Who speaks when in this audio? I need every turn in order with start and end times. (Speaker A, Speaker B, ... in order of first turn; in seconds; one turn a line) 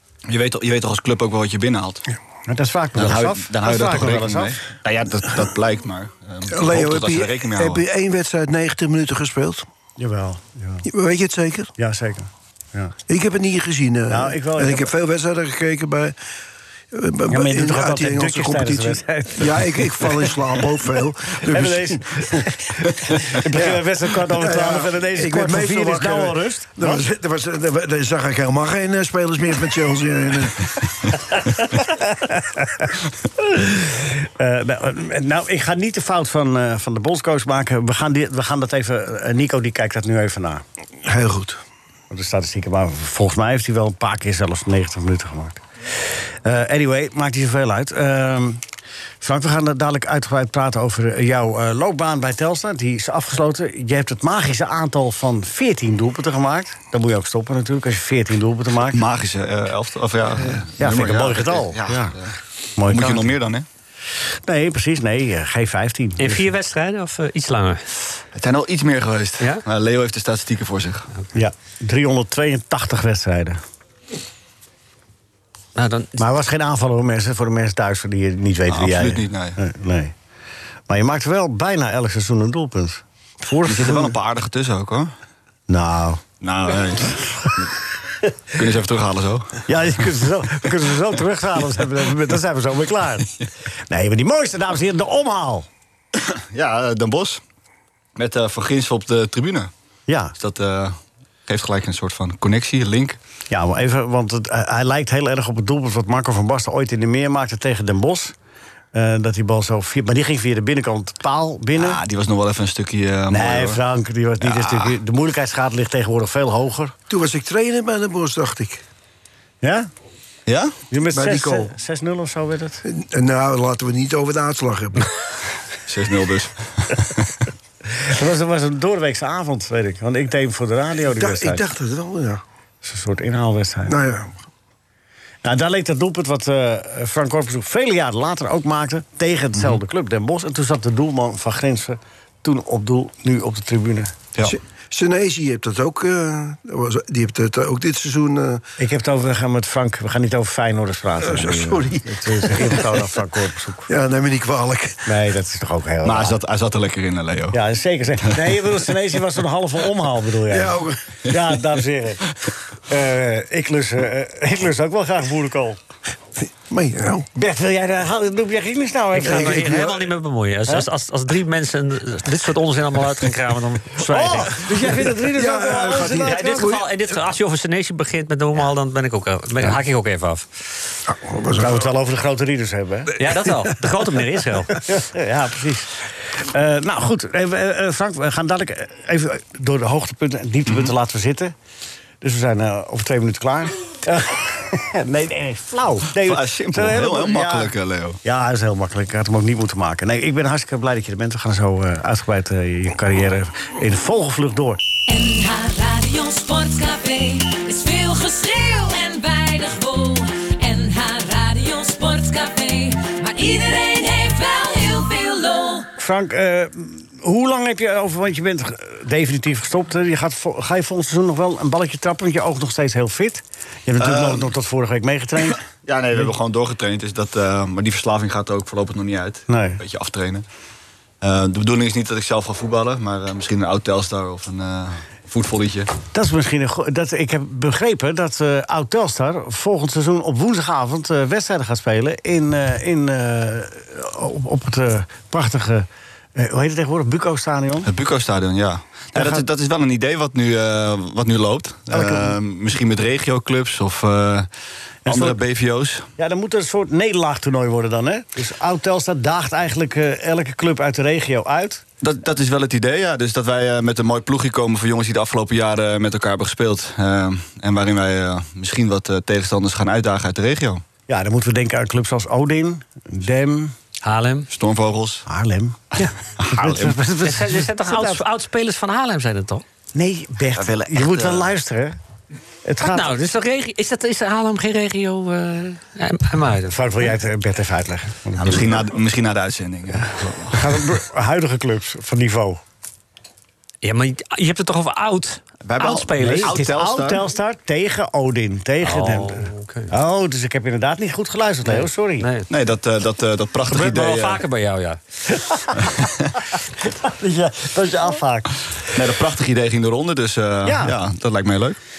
Speaker A: 0.3-2.0
Speaker B: 2.5-4.7
Speaker A: 2.9-7.8
Speaker C: 6.5-9.6
Speaker B: 10.0-10.8
Speaker C: 10.8-11.7
Speaker B: 11.8-12.9
Speaker C: 13.1-16.1
Speaker B: 14.1-14.9
Speaker C: 16.9-31.2
Speaker B: 17.3-20.6
Speaker B: 21.3-27.0
Speaker B: 31.3-40.6
Speaker C: 41.0-41.6
Speaker B: 42.1-48.6
Speaker B: 49.2-59.0
Speaker A: 58.9-63.6
Speaker B: 60.8-62.2
Speaker B: 62.8-63.3
Speaker B: 64.5-66.5
Speaker D: 66.2-67.9
Speaker A: 68.3-71.1
Speaker B: 71.3-73.6
Speaker D: 75.8-76.2
Speaker B: 76.2-80.1
Speaker A: 78.7-79.6
Speaker B: 80.9-84.1
Speaker A: 83.6-85.1
Speaker B: 85.7-86.2
Speaker A: 86.4-87.7
Speaker A: 88.5-90.1
Speaker B: 89.7-93.3
Speaker B: 93.9-95.7
Speaker A: 96.1-97.4
Speaker A: 98.1-99.7
Speaker B: 100.1-100.3
Speaker A: 100.3-103.2
Speaker B: 103.5-108.3
Speaker B: 108.9-112.0
Speaker A: 111.7-113.8
Speaker B: 113.3-116.9
Speaker A: 114.4-115.0
Speaker C: 117.1-118.8
Speaker B: 119.6-119.9
Speaker A: 120.5-120.7
Speaker B: 120.9-122.8
Speaker C: 121.1-121.7
Speaker C: 122.8-125.1
Speaker A: 125.9-127.3
Speaker B: 127.9-131.7
Speaker C: 131.1-132.4
Speaker B: 132.8-133.9
Speaker C: 133.9-134.3
Speaker B: 135.4-144.2
Speaker C: 144.4-148.6
Speaker B: 148.8-153.9
Speaker C: 151.2-153.0
Speaker C: 153.9-155.0
Speaker B: 155.1-156.4
Speaker A: 156.0-157.6
Speaker B: 157.5-162.2
Speaker C: 160.5-161.0
Speaker B: 162.9-165.8
Speaker C: 166.7-167.3
Speaker B: 167.3-169.9
Speaker D: 169.1-175.0
Speaker C: 169.2-170.1
Speaker B: 174.0-176.7
Speaker C: 174.9-177.0
Speaker D: 176.1-180.4
Speaker C: 181.1-181.9
Speaker B: 181.6-183.1
Speaker D: 183.2-184.8
Speaker B: 184.8-191.5
Speaker A: 190.7-190.9
Speaker B: 192.2-204.8
Speaker A: 196.1-198.2
Speaker E: 205.1-215.9
Speaker B: 216.0-225.6
Speaker A: 224.0-224.5
Speaker A: 225.4-230.4
Speaker B: 229.5-229.8
Speaker A: 231.2-235.9
Speaker B: 236.1-247.9
Speaker A: 247.8-254.5
Speaker B: 249.1-249.4
Speaker B: 251.9-252.4
Speaker B: 255.1-255.4
Speaker A: 255.1-256.1
Speaker B: 256.2-261.8
Speaker A: 262.0-270.8
Speaker B: 271.1-273.7
Speaker D: 274.0-274.5
Speaker A: 274.5-275.2
Speaker B: 275.2-278.2
Speaker A: 276.0-277.0
Speaker D: 277.2-279.6
Speaker B: 279.9-281.9
Speaker A: 280.5-281.5
Speaker B: 282.6-283.1
Speaker D: 282.8-286.9
Speaker B: 286.7-288.9
Speaker A: 288.4-290.9
Speaker B: 290.5-292.6
Speaker D: 293.8-296.7
Speaker A: 295.6-297.2
Speaker B: 296.2-302.3
Speaker D: 298.8-299.9
Speaker D: 301.6-302.5
Speaker A: 302.5-304.4
Speaker D: 303.7-305.0
Speaker B: 305.4-306.0
Speaker B: 306.8-308.6
Speaker A: 308.9-311.8
Speaker B: 310.6-310.9